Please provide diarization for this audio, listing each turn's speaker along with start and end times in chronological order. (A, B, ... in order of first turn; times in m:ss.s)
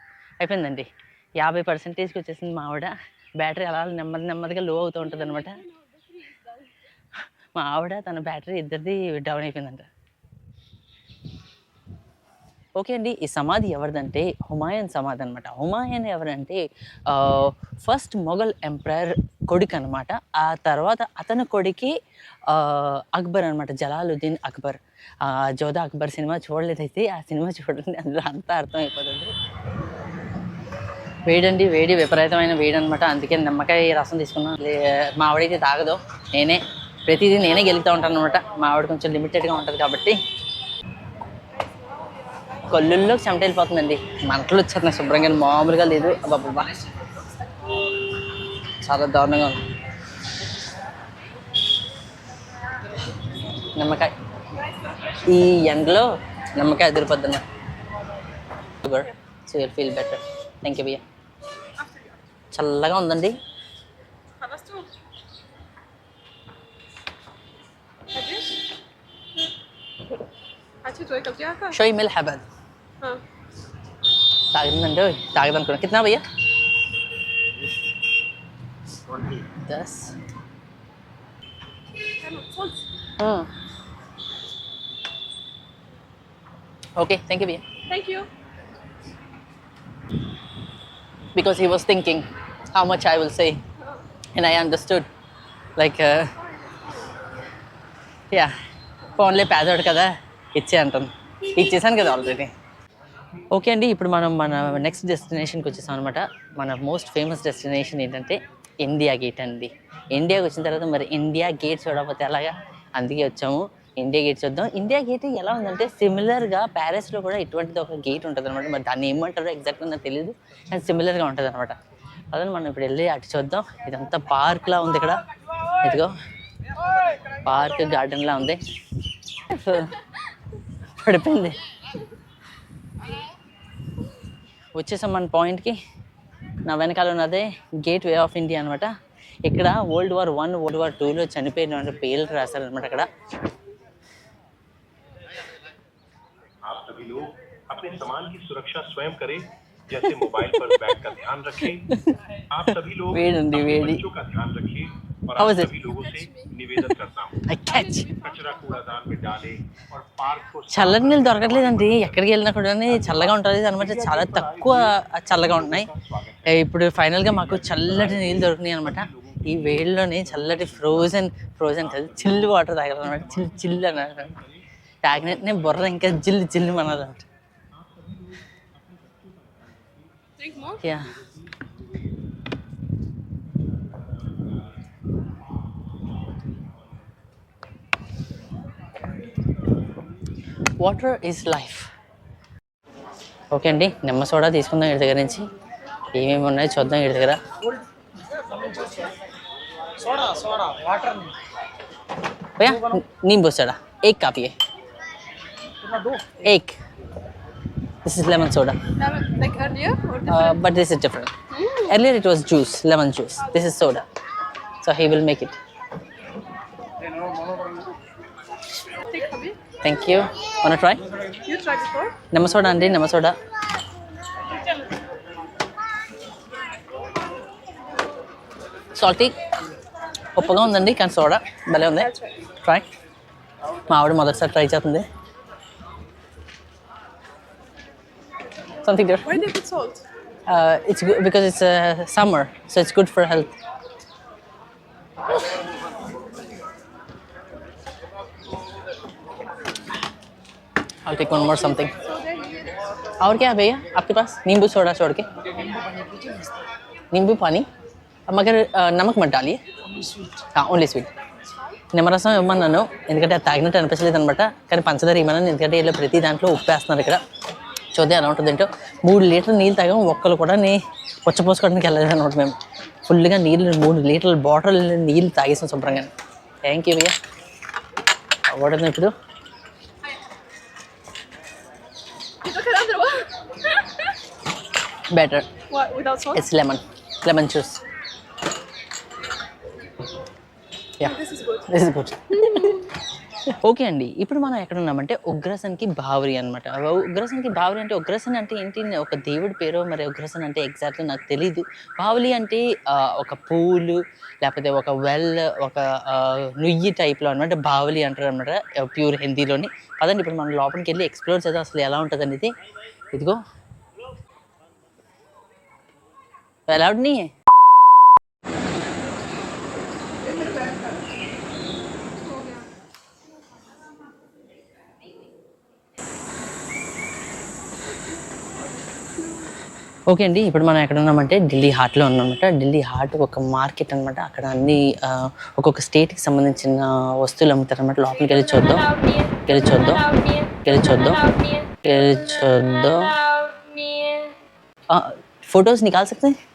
0:00.4-0:05.6 A
0:05.3-0:06.7 B
0:07.5-0:09.9 A
0:12.8-0:21.9 A
0:22.5-0:29.3 A
0:31.2-0:40.2 A
0:42.7-0:46.8 A
0:46.3-0:47.7 B
0:48.8-0:49.6 A
0:53.6-0:54.1 A
0:54.6-0:55.2 B
0:55.1-0:57.4 A
0:58.7-1:01.0 A
1:01.8-1:02.1 B
1:02.5-1:03.4 A
1:04.4-1:04.9 B
1:08.1-1:08.6 B
1:10.8-1:11.8 B
1:11.7-1:12.4 A
1:14.5-1:16.2 A
1:19.2-1:20.2 A
1:22.1-1:22.9 B
1:23.2-1:23.5 A
1:27.0-1:27.6 A
1:27.9-1:28.3 B
1:31.3-1:33.6 A
1:34.3-1:35.1 A
1:35.8-1:36.4 A
1:36.4-1:37.3 B
1:39.1-1:42.5 A
1:43.5-2:01.8 A
2:02.3-2:05.2 A
2:05.8-2:06.2 A
2:07.4-2:08.6 A
2:09.3-2:10.1 A
2:10.9-2:11.6 A
2:14.7-2:15.8 A
2:16.6-2:18.9 A
2:19.4-2:23.1 A
2:26.6-2:32.0 C
2:30.3-2:30.8 A
2:31.6-2:34.0 A
2:32.5-2:37.5 C
2:35.4-2:35.7 A
2:36.0-2:36.5 B
2:36.8-2:38.1 A
2:37.7-2:38.8 B
2:38.3-2:42.1 C
2:40.7-2:45.9 A
2:43.9-2:44.7 C
2:46.4-2:54.4 A
2:55.0-2:57.3 A
3:00.4-3:00.8 B
3:00.8-3:01.2 A
3:10.8-3:11.9 A
3:13.5-3:15.5 A
3:16.1-3:17.4 A
3:20.1-3:20.9 B
3:22.6-3:24.5 A
3:26.4-3:26.8 A
3:28.0-3:28.8 A
3:29.0-3:30.6 B
3:30.3-3:34.0 A
3:31.5-3:32.0 B
3:34.8-3:35.6 A
3:38.9-3:39.6 B
3:39.8-3:41.0 A
3:41.4-3:42.2 B
3:42.3-3:43.4 A
3:48.9-3:49.3 A
3:50.4-3:52.9 A
3:51.9-3:52.4 B
3:53.8-3:55.0 A
3:58.8-3:59.4 A
3:59.2-4:00.1 B
4:00.4-4:03.6 A
4:11.0-4:12.0 A
4:12.0-4:12.8 B
4:13.2-4:15.3 A
4:15.8-4:16.5 B
4:17.1-4:17.7 A
4:18.3-4:19.6 A
4:20.3-4:21.1 A
4:21.9-4:27.2 A
4:27.9-4:36.1 A
4:36.6-4:37.2 A
4:38.5-4:39.1 A
4:42.4-4:44.2 B
4:45.1-4:45.5 A
4:45.7-4:46.4 B
4:46.3-4:47.8 A
4:51.0-4:52.9 A
4:51.0-4:51.7 B
4:52.3-4:52.9 B
4:53.5-5:12.5 A
5:13.1-5:13.4 A
5:16.7-5:17.3 A
5:20.3-5:20.9 B
5:22.3-5:22.6 B
5:30.1-5:43.2 A
5:44.9-5:46.4 A